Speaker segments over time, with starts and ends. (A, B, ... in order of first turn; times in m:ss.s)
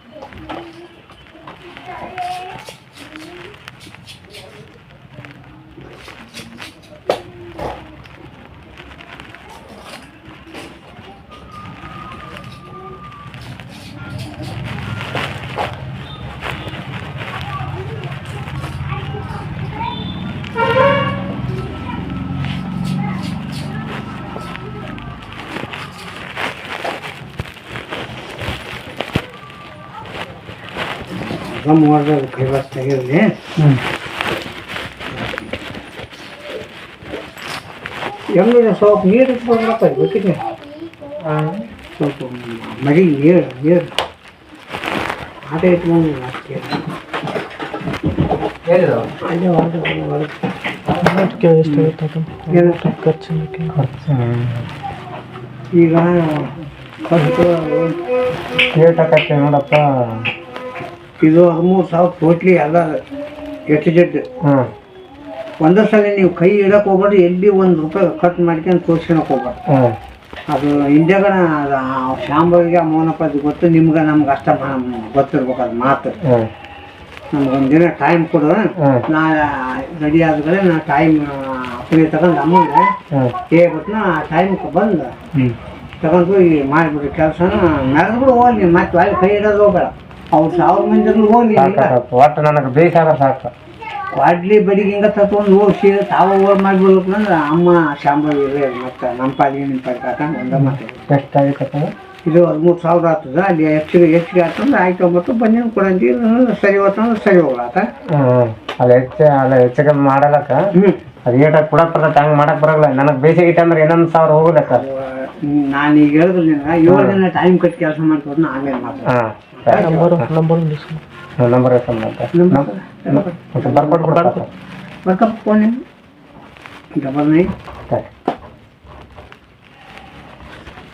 0:31.2-0:33.7 A
0:35.1-0:35.5 A
0:38.3-0:40.4 A
0:41.2-0:41.6 B
0:42.0-0:43.9 A
0:45.5-0:46.8 A
0:48.7-0:49.1 B
0:49.2-0:50.4 A
0:51.0-0:53.8 C
0:51.6-0:51.9 A
0:52.5-0:52.9 A
0:53.8-0:54.7 B
0:55.7-0:56.5 A
0:57.1-0:57.9 A
0:58.7-1:00.3 B
1:01.2-1:03.0 A
1:03.7-1:04.2 A
1:05.6-1:09.6 A
1:09.7-1:10.0 B
1:10.5-1:16.2 A
1:16.2-1:16.5 B
1:17.3-1:22.9 A
1:23.5-1:25.1 A
1:26.0-1:31.9 A
1:31.6-1:33.5 B
1:34.1-1:41.0 A
1:40.6-1:41.9 B
1:42.2-1:47.9 A
1:48.1-1:50.6 B
1:51.3-1:54.8 B
1:54.7-2:00.1 A
1:56.9-1:57.2 B
1:59.1-2:00.3 B
1:59.7-2:01.0 C
2:01.4-2:04.5 B
2:02.3-2:04.1 A
2:04.0-2:04.4 C
2:05.0-2:05.8 A
2:07.0-2:07.5 A